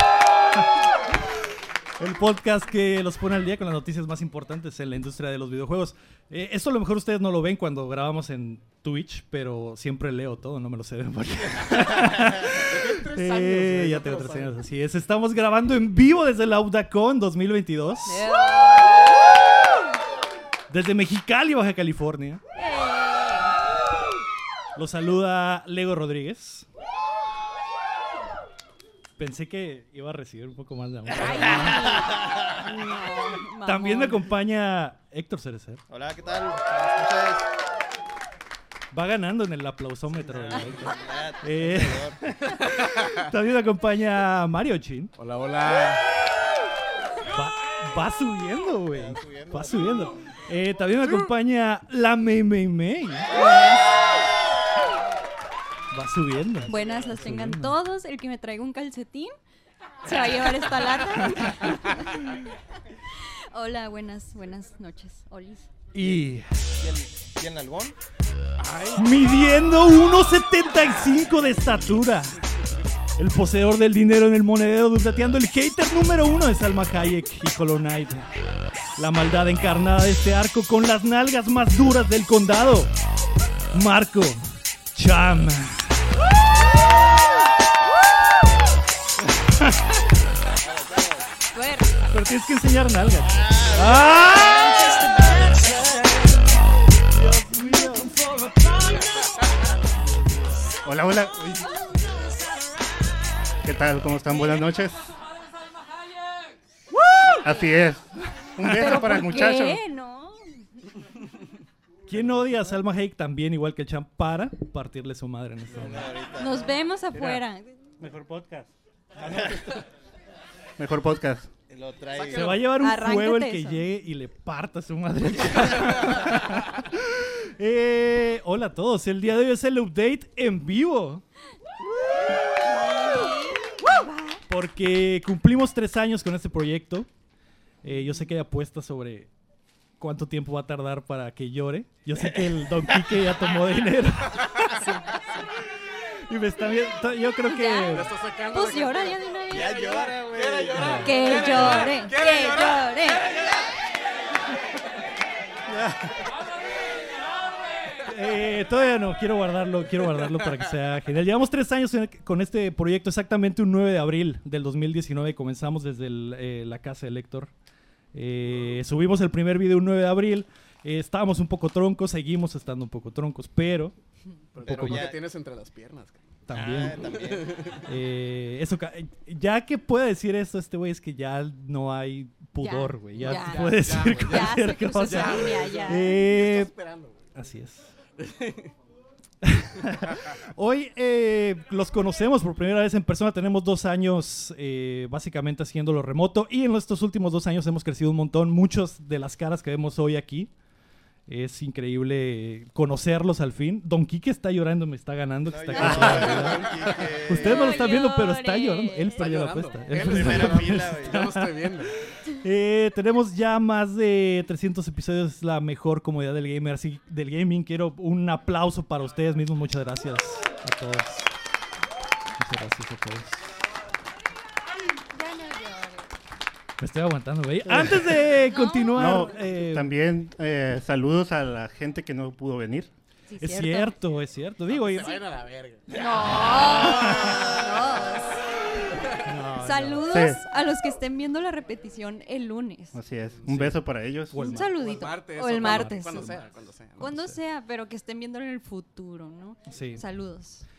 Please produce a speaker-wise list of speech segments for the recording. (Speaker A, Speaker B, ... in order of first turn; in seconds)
Speaker A: 2.0-18.3, 20.7-22.4, 24.8-26.6, 29.2-32.0, 33.7-35.8, 38.9-45.1, 47.3-53.3, 55.9-57.8, 61.4-61.7, 65.9-66.5, 69.0-72.3, 73.2-78.3, 79.0-82.9, 83.7-85.8, 92.1-96.0, 97.1-99.0, 100.0-100.6, 112.1-116.1, 122.3-131.2, 134.5-137.1, 137.8-139.3, 140.0-144.7, 146.3-148.1, 150.8-151.9, 158.0-167.5, 168.1-173.9, 174.7-175.1, 176.5-177.1, 177.8-186.7, 187.3-187.9, 189.4-200.5, 201.3-211.5, 212.4-221.3, 222.4-223.5, 226.8-229.9, 233.4-235.2, 236.8-237.4, 239.2-240.1, 243.5-243.8, 244.3-244.8, 245.6-246.3, 247.0-247.4, 249.7-250.0
Speaker B: 12.5-14.5, 45.2-46.0, 68.6-69.0, 122.2-122.6, 147.9-149.2, 149.8-152.8, 174.6-176.2, 177.1-177.8, 183.2-187.2, 188.2-188.7, 209.2-211.9, 234.7-235.8, 244.6-247.0
Speaker C: 18.0-19.2, 22.6-23.5, 31.1-34.2, 53.3-53.8, 56.7-59.3, 60.0-62.4, 63.5-65.7, 91.5-92.0, 108.6-110.4, 116.4-117.8, 122.8-123.8, 132.7-134.4, 144.7-145.2, 147.5-150.2, 150.9-153.3, 182.6-186.2, 207.4-209.2, 225.1-226.1, 228.5-229.2, 233.3-234.0, 235.9-238.4, 239.6-243.0, 244.4-246.4, 247.0-250.7
Speaker D: 35.9-37.5, 40.2-42.2, 48.9-50.1, 56.4-57.4, 66.0-66.2, 66.8-68.0, 90.5-91.3, 93.2-95.5, 115.7-116.8, 121.7-122.7, 149.5-151.1, 174.6-175.2, 176.5-177.7, 205.5-207.9, 209.9-211.3
Speaker E: 100.8-101.8, 103.6-105.1, 107.4-109.8, 118.0-119.8, 120.8-121.5, 205.8-206.5, 227.7-228.3, 228.9-232.9, 240.1-240.4, 242.9-244.5